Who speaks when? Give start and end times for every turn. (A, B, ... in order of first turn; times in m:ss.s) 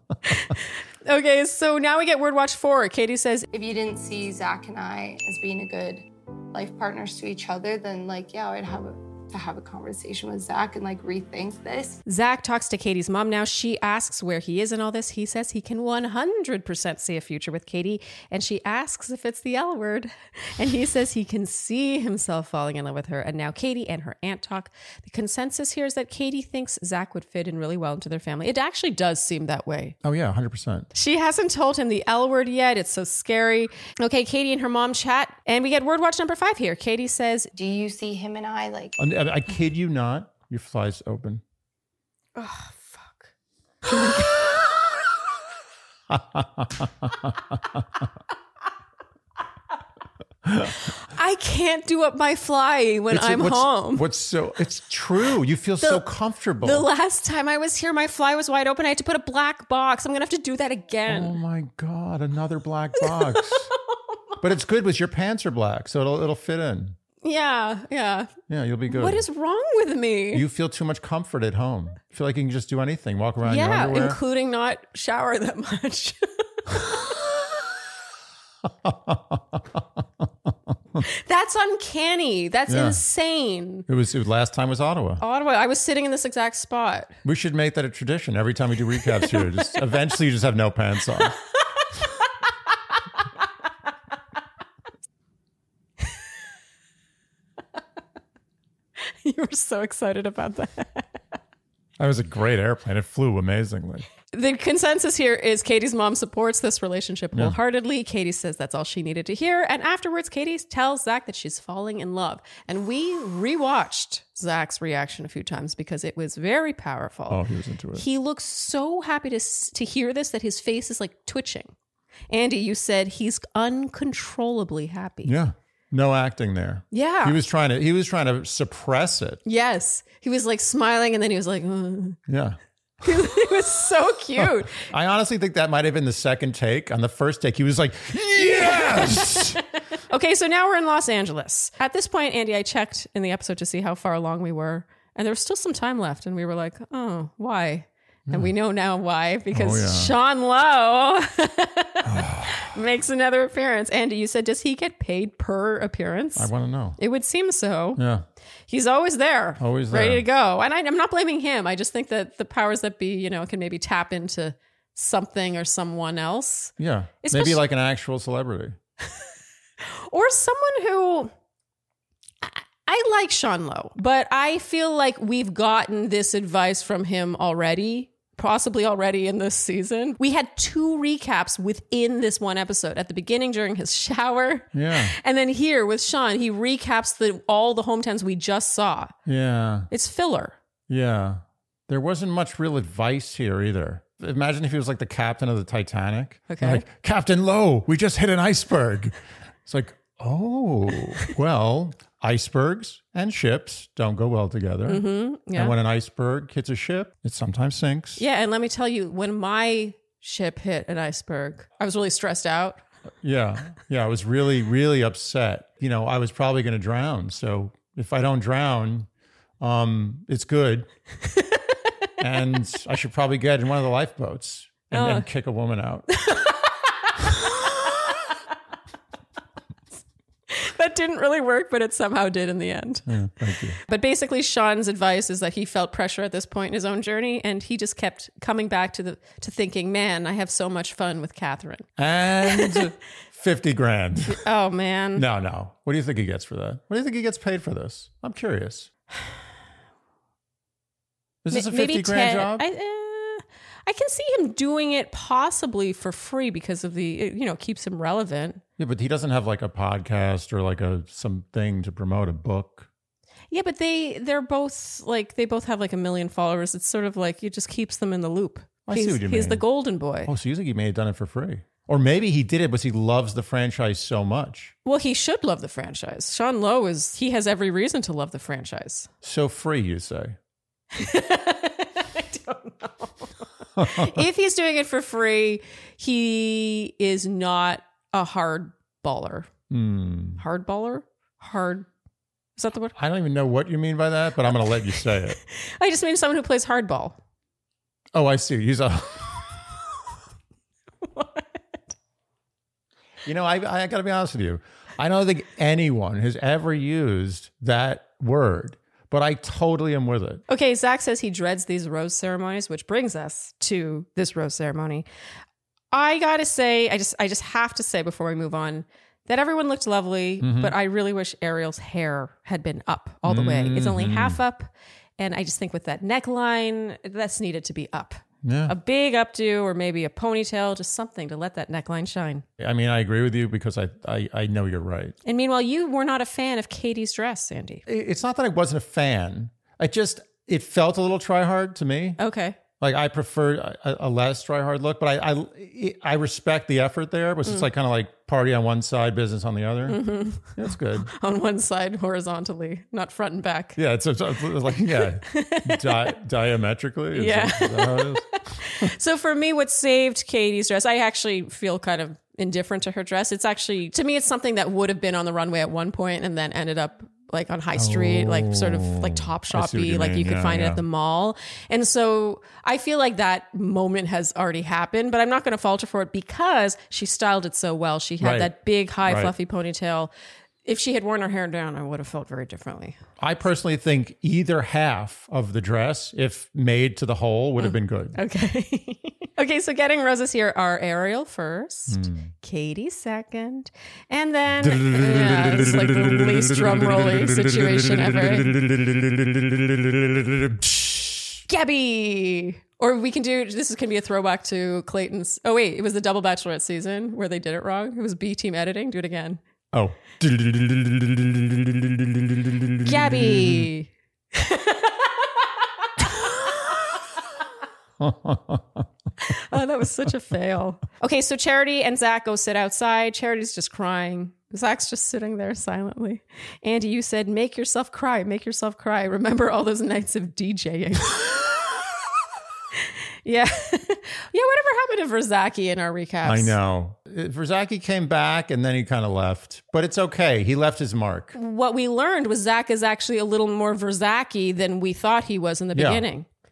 0:00.4-0:03.5 A
0:03.5-0:12.0 B
0:12.0-0:30.0 A
0:30.0-0:30.9 C
0:30.9-0:37.5 A
0:37.5-0:39.0 B
0:39.0-0:41.4 C
0:42.4-0:43.3 A
0:43.8-0:44.6 A
0:46.1-0:47.3 C
0:50.4-0:50.7 C
0:50.8-0:54.0 A
0:53.1-0:56.9 C
0:56.6-1:01.4 A
1:01.0-1:03.7 C
1:03.0-1:03.8 A
1:04.4-1:07.0 C
1:07.2-1:08.3 A
1:08.5-1:09.2 C
1:08.9-1:10.4 A
1:10.3-1:14.2 C
1:13.4-1:17.2 A
1:18.6-1:21.0 C
1:21.0-1:23.8 A
1:22.7-1:23.0 C
1:23.9-1:25.2 C
1:25.2-1:27.1 A
1:27.2-1:31.4 C
1:29.2-1:29.5 A
1:39.0-1:41.1 A
1:42.0-1:44.0 C
1:44.3-1:57.4 A
1:57.3-1:58.0 C
1:57.9-2:01.7 A
2:02.3-2:05.3 A
2:05.2-2:09.4 C
2:06.9-2:07.4 A
2:09.4-2:12.2 A
2:12.3-2:12.6 C
2:13.0-2:14.8 A
2:14.4-2:19.6 C
2:18.6-2:38.0 A
2:29.5-2:30.1 C
2:32.0-2:32.7 C
2:36.4-2:37.0 C
2:38.0-2:38.2 C
2:38.7-2:47.6 A
2:39.6-2:40.2 C
2:46.8-2:48.8 C
2:49.8-2:51.3 A
2:52.4-3:09.1 A
3:04.7-3:05.1 C
3:09.2-3:09.9 C
3:09.9-3:10.6 A
3:10.9-3:28.2 C
3:16.5-3:16.8 A
3:24.9-3:25.7 A
3:28.2-3:32.8 A
3:33.2-3:39.1 C
3:39.6-3:40.9 C
3:42.2-3:46.1 C
3:44.9-3:45.2 A
3:46.2-3:48.1 A
3:50.5-3:53.1 A
3:53.1-3:53.8 C
3:53.8-4:01.9 A
4:02.0-4:04.4 C
4:02.4-4:02.9 A
4:04.2-4:05.2 A
4:05.1-4:08.9 C
4:11.4-4:12.6 C
4:11.5-4:18.6 A
4:18.8-4:22.9 C
4:23.5-4:30.3 A
4:28.8-4:29.6 C
4:30.2-4:34.7 C
4:34.8-4:39.1 A
4:39.2-4:40.4 C
4:40.9-4:49.5 A
4:43.8-4:44.2 C
4:49.7-4:50.4 C
4:50.4-4:51.9 A
4:52.6-4:52.9 A
4:53.0-4:55.4 C
4:55.5-4:57.2 A
4:58.1-4:59.5 C
5:01.0-5:01.9 A
5:03.2-5:10.4 C
5:10.5-5:15.0 A
5:15.9-5:32.4 A
5:20.4-5:20.7 C
5:23.2-5:24.4 C
5:28.4-5:28.7 C
5:32.6-5:35.2 C
5:35.2-5:37.8 A
5:37.8-5:42.2 C
5:42.2-5:42.6 A
5:42.8-5:51.1 C
5:49.9-5:53.8 A
5:53.8-5:58.9 C
5:55.2-5:56.1 A
5:57.1-6:20.1 A
6:07.8-6:10.8 C
6:18.2-6:18.5 C
6:19.0-6:19.3 C
6:20.6-6:23.0 A
6:23.2-6:28.2 C
6:28.1-6:38.6 A
6:31.9-6:32.3 C
6:34.6-6:41.4 C
6:41.5-6:49.4 A
6:49.7-6:53.7 C
6:52.8-6:56.7 A
6:58.0-6:58.9 C
6:59.2-7:11.5 A
7:13.2-7:16.6 A
7:16.2-7:21.3 C
7:21.3-7:26.2 A
7:25.7-7:26.0 C